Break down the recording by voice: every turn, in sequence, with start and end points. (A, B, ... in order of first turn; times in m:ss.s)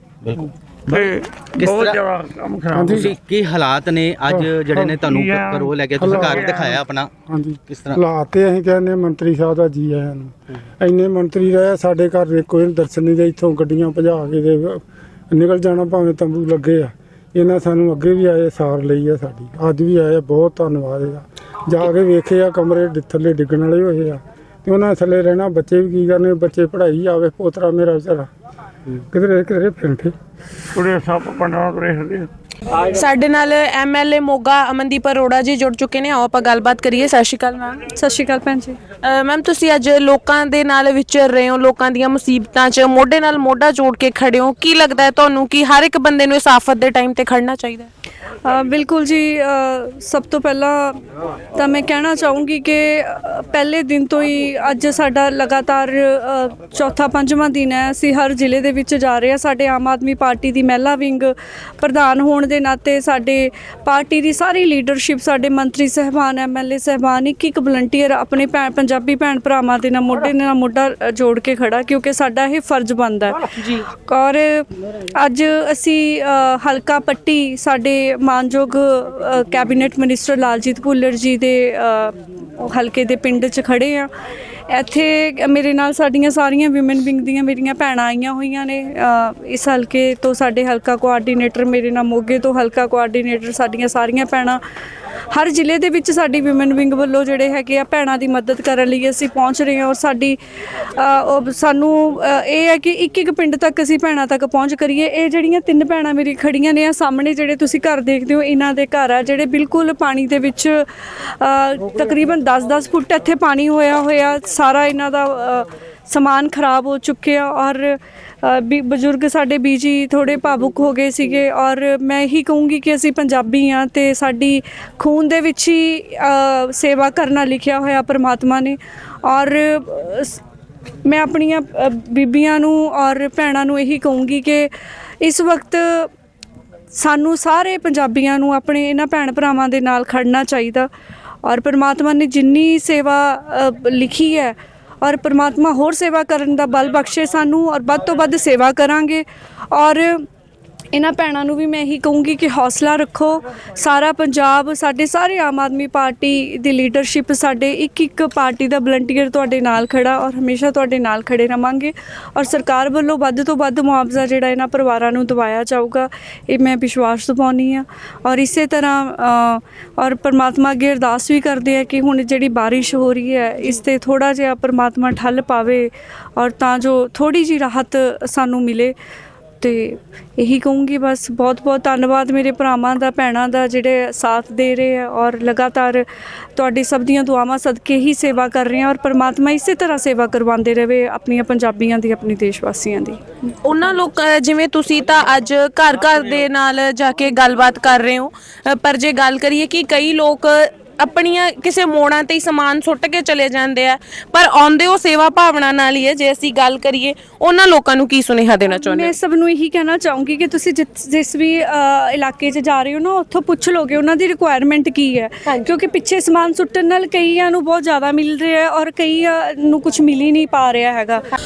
0:00.2-0:02.0 A
0:00.9-0:03.1 B
0:02.7-0:03.1 C
0:02.8-0:07.1 A
0:05.0-0:06.8 B
0:06.0-0:06.4 C
0:07.3-0:28.3 C
0:07.7-0:08.0 A
0:29.1-0:30.1 C
0:30.7-0:32.3 B
0:32.7-0:37.8 D
0:37.9-0:38.8 E
0:39.0-0:47.9 D
0:48.4-0:51.0 E
0:51.6-1:13.4 E
1:13.6-1:13.8 D
1:14.0-1:24.1 E
1:24.7-1:34.6 E
1:35.3-2:10.4 E
2:11.0-2:14.7 E
2:15.2-2:16.1 E
2:16.9-2:20.9 E
2:21.4-2:30.2 E
2:30.9-2:58.9 E
2:59.6-3:06.0 E
3:06.6-3:13.2 E
3:13.6-3:29.1 D
3:28.7-3:41.2 E
3:35.4-3:35.7 D